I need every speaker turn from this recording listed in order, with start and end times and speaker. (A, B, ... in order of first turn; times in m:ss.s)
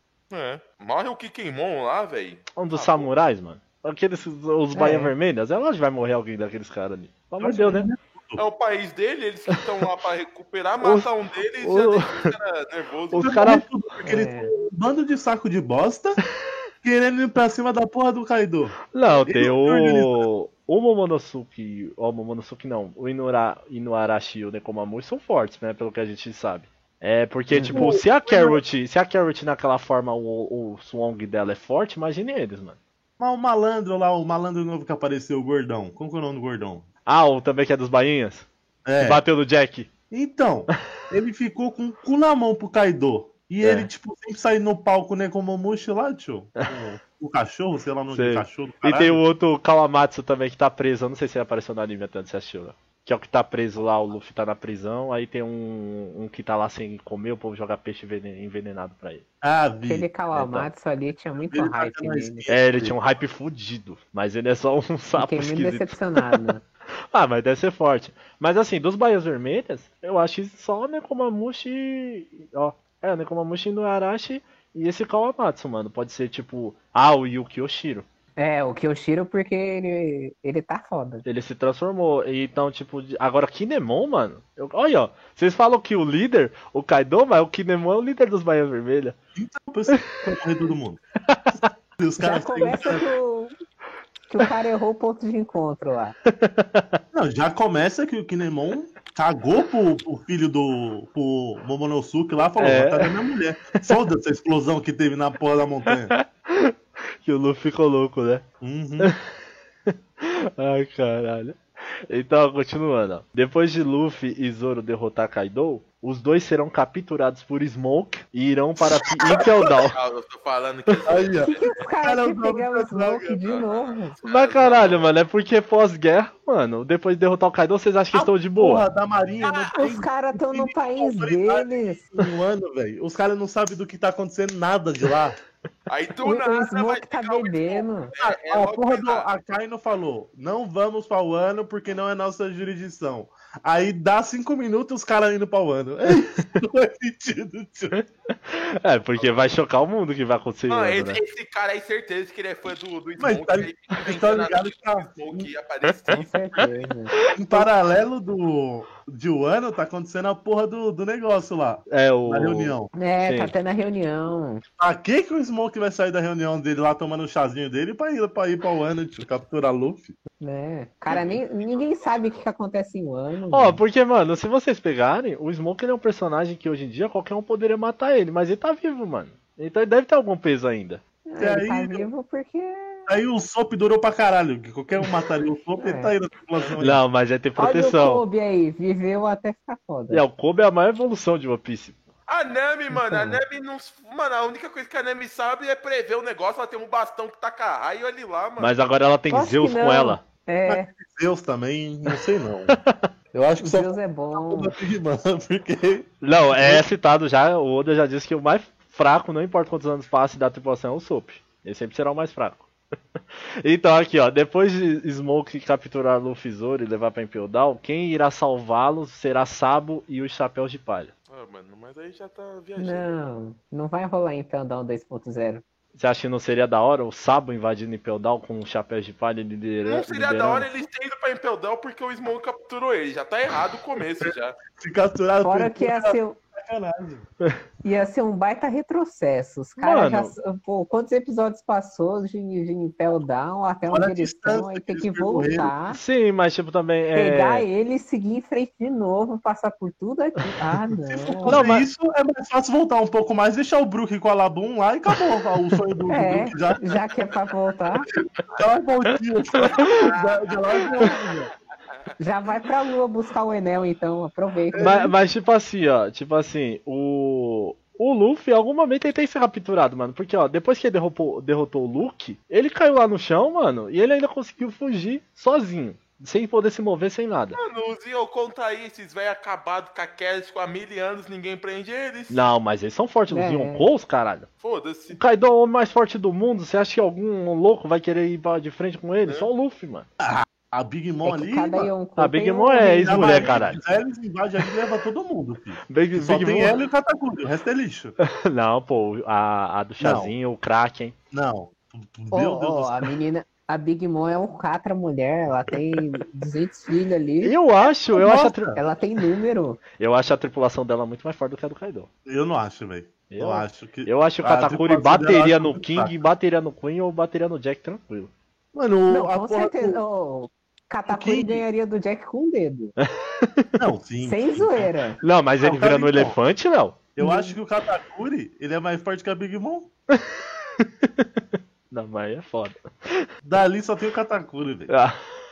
0:00.3-0:03.1 A
0:02.6-0:07.9 B
0:04.8-0:05.1 C
0:07.4-0:08.4 D
0:08.4-0:13.4 A
0:10.8-0:11.1 B
0:11.6-0:12.4 B
0:13.1-0:13.7 B
0:13.2-0:16.2 D
0:14.0-0:14.5 C
0:16.8-0:20.3 D
0:18.9-0:32.8 B
0:27.5-0:27.8 C
0:27.7-0:28.6 D
0:33.2-0:36.9 D
0:37.1-0:38.5 B
0:38.8-0:39.2 D
0:39.0-0:39.9 B
0:40.1-0:49.2 D
0:43.6-0:43.9 B
0:48.1-0:59.2 B
0:59.4-1:00.1 D
0:59.8-1:02.5 C
1:00.3-1:00.7 B
1:01.5-1:03.0 D
1:02.5-1:06.3 B
1:05.2-1:06.6 C
1:07.1-1:18.0 B
1:18.4-1:21.2 C
1:21.2-1:29.2 B
1:29.4-1:31.0 D
1:31.2-1:31.6 B
1:32.0-1:33.1 D
1:32.2-1:33.5 C
1:34.3-1:36.2 C
1:36.3-1:37.0 B
1:37.1-1:46.1 D
1:42.6-1:43.2 B
1:45.9-1:48.4 B
1:48.6-1:49.2 D
1:49.9-2:00.0 B
1:59.1-1:59.4 D
1:59.4-2:01.9 A
2:01.1-2:03.6 D
2:01.4-2:04.2 C
2:03.4-2:05.1 A
2:04.3-2:08.9 B
2:08.1-2:15.4 D
2:09.4-2:09.8 A
2:09.7-2:12.0 C
2:15.9-2:19.3 A
2:16.2-2:18.1 C
2:18.2-2:28.0 D
2:27.9-2:31.2 B
2:29.2-2:29.4 A
2:30.7-2:36.7 A
2:33.2-2:35.5 D
2:36.1-2:37.6 C
2:37.3-2:42.9 D
2:41.9-2:43.5 B
2:42.9-2:44.6 C
2:44.8-2:50.2 D
2:50.4-2:53.8 C
2:51.1-2:52.4 A
2:53.5-3:01.0 B
3:01.3-3:03.1 C
3:01.4-3:02.1 D
3:03.1-3:07.0 D
3:05.8-3:06.1 C
3:06.8-3:08.2 B
3:07.6-3:10.2 C
3:10.1-3:12.0 B
3:12.3-3:18.7 A
3:18.6-3:20.2 B
3:19.3-3:20.9 C
3:20.6-3:22.8 D
3:22.7-3:23.1 B
3:23.3-3:26.9 D
3:23.6-3:24.8 C
3:26.2-3:32.7 B
3:33.6-3:41.1 B
3:41.3-3:43.2 A
3:42.8-3:45.6 C
3:46.0-3:50.7 B
3:49.9-3:54.6 A
3:54.2-3:57.3 D
3:55.4-3:56.4 C
3:57.8-4:06.0 C
3:59.8-4:00.3 B
4:03.9-4:05.7 D
4:05.9-4:07.7 B
4:07.2-4:11.7 C
4:11.0-4:17.0 D
4:11.4-4:11.9 B
4:16.1-4:18.1 C
4:18.5-4:21.5 D
4:19.8-4:21.2 A
4:22.2-4:25.1 C
4:24.7-4:25.1 D
4:24.8-4:37.6 B
4:37.6-4:42.4 A
4:42.3-4:44.5 B
4:43.3-4:43.9 C
4:44.6-4:45.2 A
4:45.1-4:50.1 B
4:50.2-4:51.9 D
4:51.2-4:53.6 C
4:52.2-4:53.8 B
4:53.0-4:58.2 D
4:55.9-4:56.8 B
4:58.2-5:01.2 B
5:00.0-5:00.3 D
5:01.3-5:03.1 D
5:02.3-5:07.6 C
5:07.4-5:08.8 B
5:08.1-5:08.8 D
5:08.8-5:09.8 C
5:10.0-5:12.1 B
5:12.3-5:16.2 D
5:13.3-5:18.3 B
5:18.7-5:20.0 D
5:19.1-5:23.0 C
5:21.1-5:21.7 D
5:23.0-5:23.7 B
5:23.8-5:24.9 D
5:24.2-5:25.2 C
5:25.2-5:27.0 B
5:25.6-5:26.4 D
5:27.2-5:29.9 D
5:27.2-5:27.6 C
5:30.1-5:33.3 B
5:33.4-5:34.9 D
5:34.9-5:35.2 B